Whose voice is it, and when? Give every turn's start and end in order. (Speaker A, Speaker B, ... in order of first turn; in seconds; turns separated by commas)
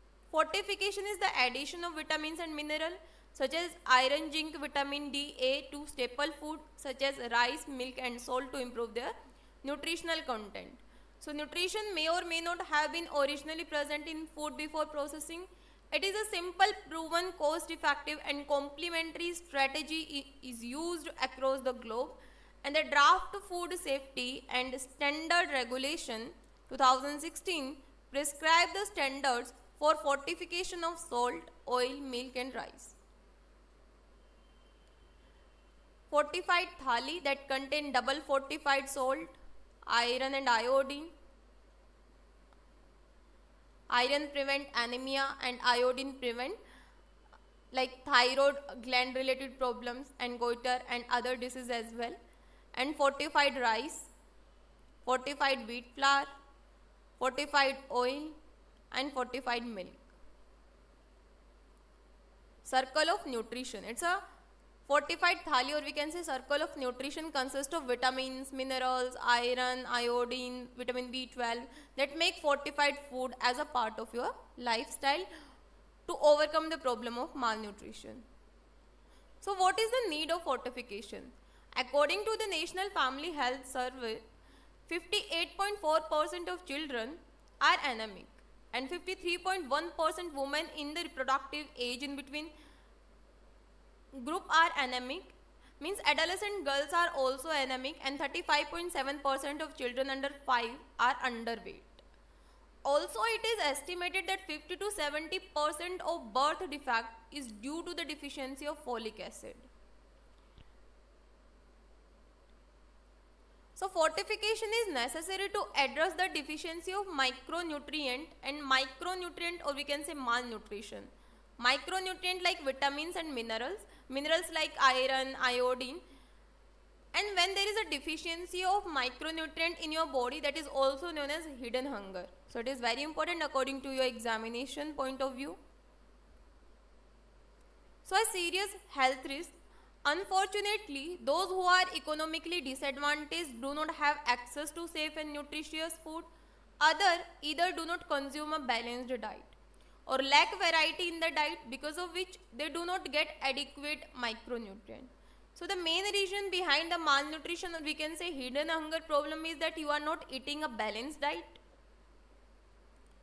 Speaker A: 0.3-33.0, Speaker A: 36.1-41.1, Speaker A: 43.9-46.6, Speaker A: 47.7-52.2, Speaker A: 52.7-54.1, Speaker A: 55.0-56.3, Speaker A: 57.2-58.4, Speaker A: 58.9-60.1, Speaker A: 62.6-64.2, Speaker A: 64.9-75.3, Speaker A: 76.1-78.2, Speaker A: 79.4-84.2, Speaker A: 84.9-92.5, Speaker A: 94.1-102.0, Speaker A: 102.9-109.7, Speaker A: 113.8-126.0, Speaker A: 127.1-135.6, Speaker A: 138.1-146.3, Speaker A: 146.8-149.6, Speaker A: 150.1-161.6